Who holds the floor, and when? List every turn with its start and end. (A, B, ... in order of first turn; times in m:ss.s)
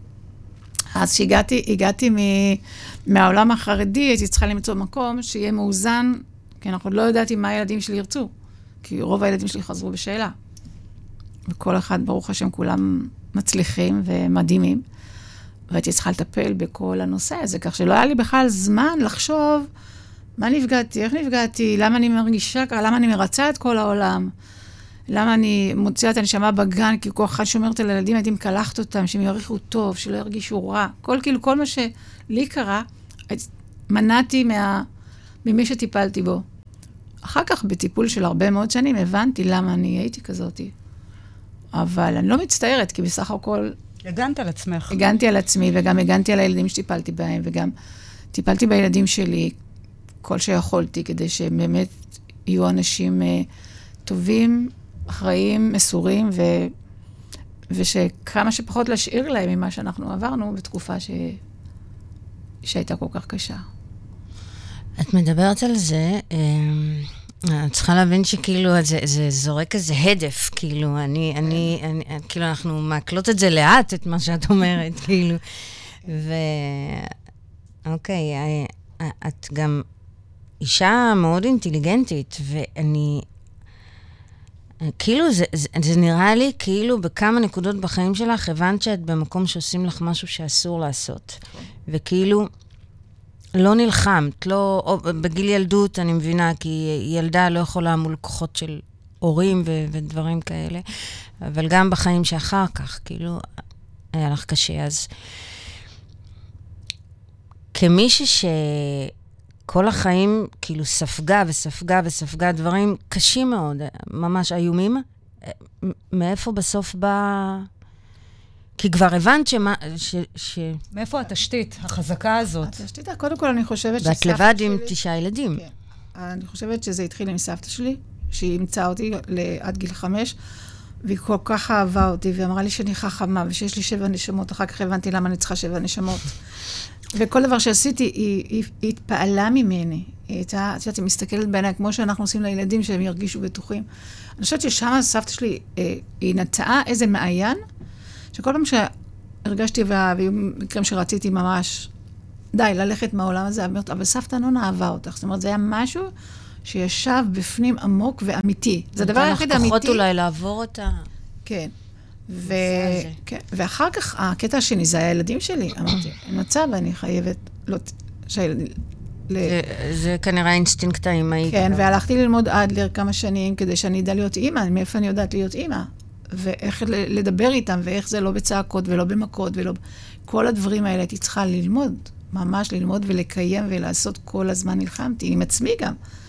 0:00.9-0:08.3 A
0:08.8-0:10.3 A
0:11.5-0:14.8 A
0:15.7-0:19.7 A
0:20.4-0:24.3 A
0:25.1-0:34.8 A
0:35.4-0:36.4 A
0:37.2-0:40.7 A
0:41.7-0:43.7 A
0:44.0-0:45.0 B
0:44.9-0:47.7 A
0:48.3-0:49.5 A
0:50.2-0:51.9 A
0:52.4-0:53.5 A
0:54.0-0:56.7 A
0:57.7-1:01.4 A
1:02.6-1:03.6 A
1:05.0-1:15.4 C
1:16.0-1:17.1 C
1:17.8-1:19.8 C
1:20.6-1:23.2 C
1:24.8-1:32.5 C
1:33.6-1:43.4 C
1:44.1-1:45.1 C
1:47.7-1:49.1 C
1:49.7-1:57.7 C
1:58.8-2:00.8 C
2:00.9-2:02.8 B
2:02.6-2:04.9 A
2:04.0-2:05.6 C
2:05.6-2:10.4 A
2:11.0-2:16.4 A
2:17.1-2:23.8 A
2:24.4-2:27.6 A
2:28.3-2:28.9 A
2:29.4-2:31.9 A
2:32.5-2:36.1 A
2:36.6-2:40.0 A
2:39.0-2:41.1 C
2:41.4-2:41.7 A
2:42.3-2:49.5 A
2:42.5-2:43.2 C
2:49.4-2:51.8 C
2:51.5-3:06.0 A